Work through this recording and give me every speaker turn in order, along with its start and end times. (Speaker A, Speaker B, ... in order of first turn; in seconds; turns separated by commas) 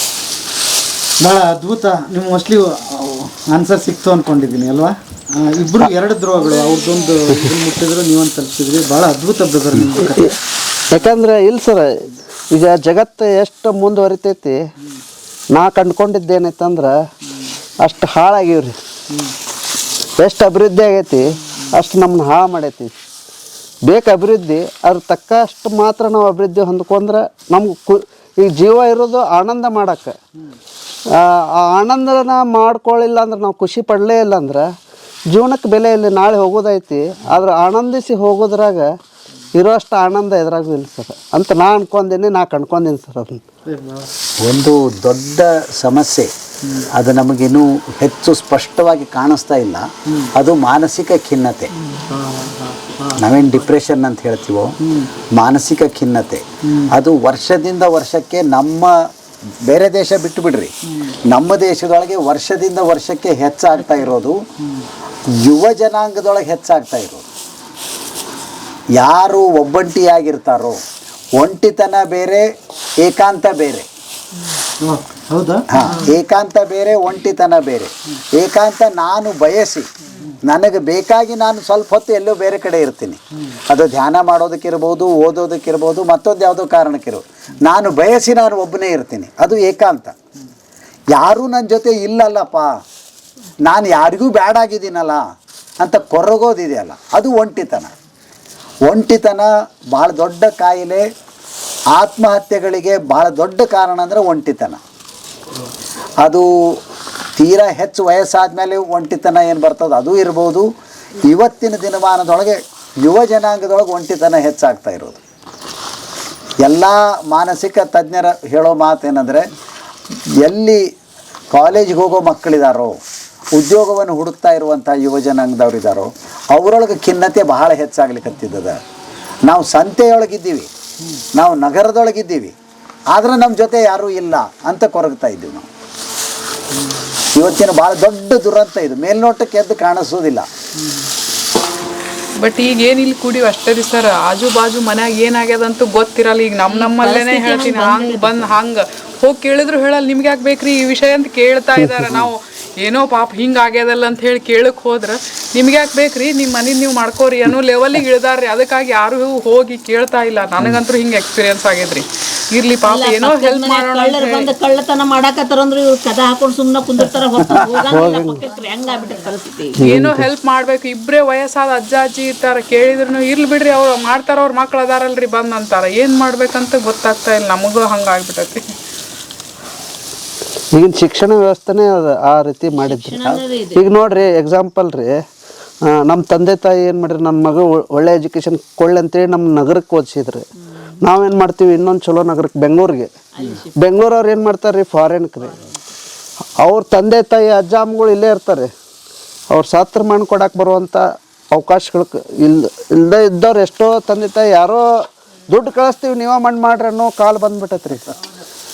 Speaker A: 1.2-10.3, Speaker B: 10.1-10.3, Speaker B: 10.9-11.9, Speaker B: 12.5-14.6, Speaker B: 15.5-16.9, Speaker B: 17.8-18.8, Speaker B: 20.2-22.9, Speaker B: 23.9-30.2, Speaker B: 31.2-34.7, Speaker B: 35.3-38.9, Speaker B: 39.6-43.5, Speaker A: 43.7-44.0, Speaker C: 44.4-46.3, Speaker C: 46.9-51.7, Speaker A: 52.1-52.5, Speaker C: 53.2-54.8, Speaker C: 55.3-59.1, Speaker C: 59.6-60.7, Speaker C: 61.3-64.4, Speaker C: 65.4-67.3, Speaker C: 69.0-70.8, Speaker C: 71.4-72.5, Speaker C: 73.0-73.9, Speaker A: 74.8-76.0, Speaker C: 75.7-79.9, Speaker C: 80.4-90.2, Speaker C: 91.1-92.7, Speaker C: 93.6-95.2, Speaker C: 95.8-97.9, Speaker C: 98.9-101.0, Speaker C: 101.9-104.8, Speaker C: 106.2-106.8, Speaker C: 107.4-110.7, Speaker C: 111.2-115.2, Speaker C: 116.6-119.5, Speaker C: 120.4-120.9, Speaker C: 121.5-123.0, Speaker C: 123.5-128.8, Speaker C: 129.4-130.7, Speaker C: 131.3-132.6, Speaker C: 133.1-135.7, Speaker C: 137.3-140.5, Speaker D: 142.4-164.5, Speaker E: 146.7-148.5, Speaker B: 151.8-152.3, Speaker E: 162.8-169.8, Speaker B: 167.9-168.4, Speaker B: 169.8-170.3, Speaker D: 169.8-178.7, Speaker B: 180.7-185.2, Speaker E: 182.8-183.8, Speaker B: 185.9-190.4, Speaker B: 191.0-193.1, Speaker E: 193.3-193.7, Speaker B: 193.8-195.6, Speaker E: 195.4-195.8, Speaker B: 196.6-198.7, Speaker B: 199.5-204.8, Speaker B: 205.5-208.2